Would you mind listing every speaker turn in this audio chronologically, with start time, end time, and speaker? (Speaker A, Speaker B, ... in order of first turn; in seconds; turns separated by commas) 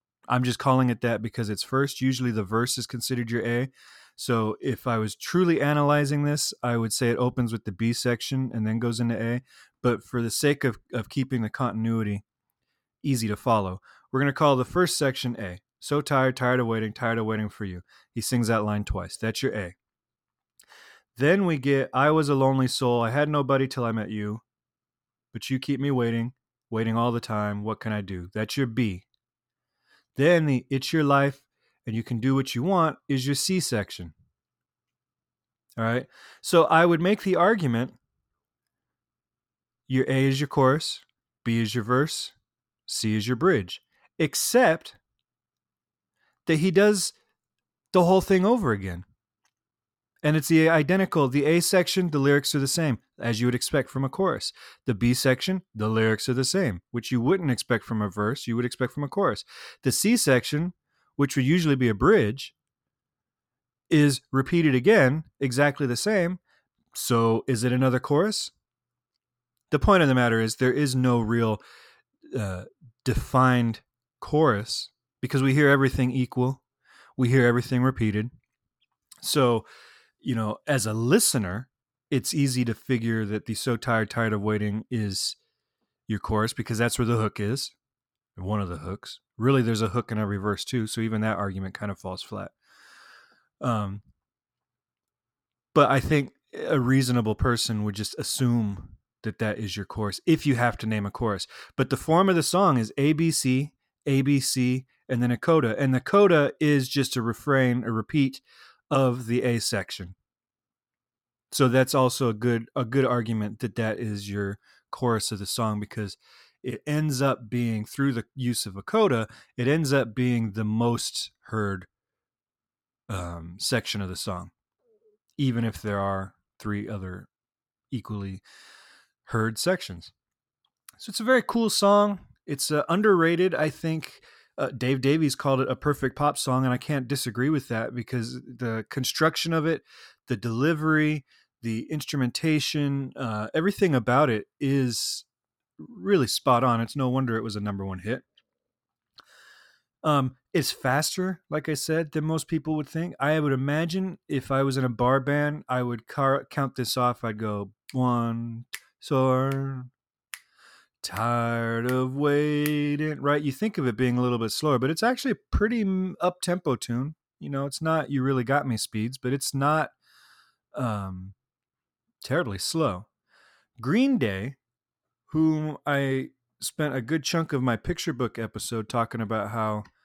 Speaker A: 0.3-12.2, Speaker A: 13.0-19.8, Speaker A: 21.1-24.4, Speaker A: 25.3-29.1, Speaker A: 30.2-34.1, Speaker A: 35.8-38.0, Speaker A: 39.9-42.4, Speaker A: 42.9-45.0, Speaker A: 46.5-47.1, Speaker A: 47.9-49.0, Speaker A: 50.2-62.5, Speaker A: 63.9-66.4, Speaker A: 66.9-68.5, Speaker A: 69.7-71.6, Speaker A: 72.3-76.6, Speaker A: 77.2-78.3, Speaker A: 79.2-79.7, Speaker A: 80.2-85.4, Speaker A: 86.1-87.8, Speaker A: 88.4-92.5, Speaker A: 93.6-94.0, Speaker A: 95.7-110.2, Speaker A: 111.5-121.9, Speaker A: 123.1-124.5, Speaker A: 125.4-127.3, Speaker A: 127.9-128.4, Speaker A: 129.2-130.1, Speaker A: 131.0-145.3, Speaker A: 145.8-148.2, Speaker A: 150.0-159.9, Speaker A: 161.0-169.9, Speaker A: 170.7-171.4, Speaker A: 172.2-173.1, Speaker A: 173.8-174.6, Speaker A: 175.3-179.8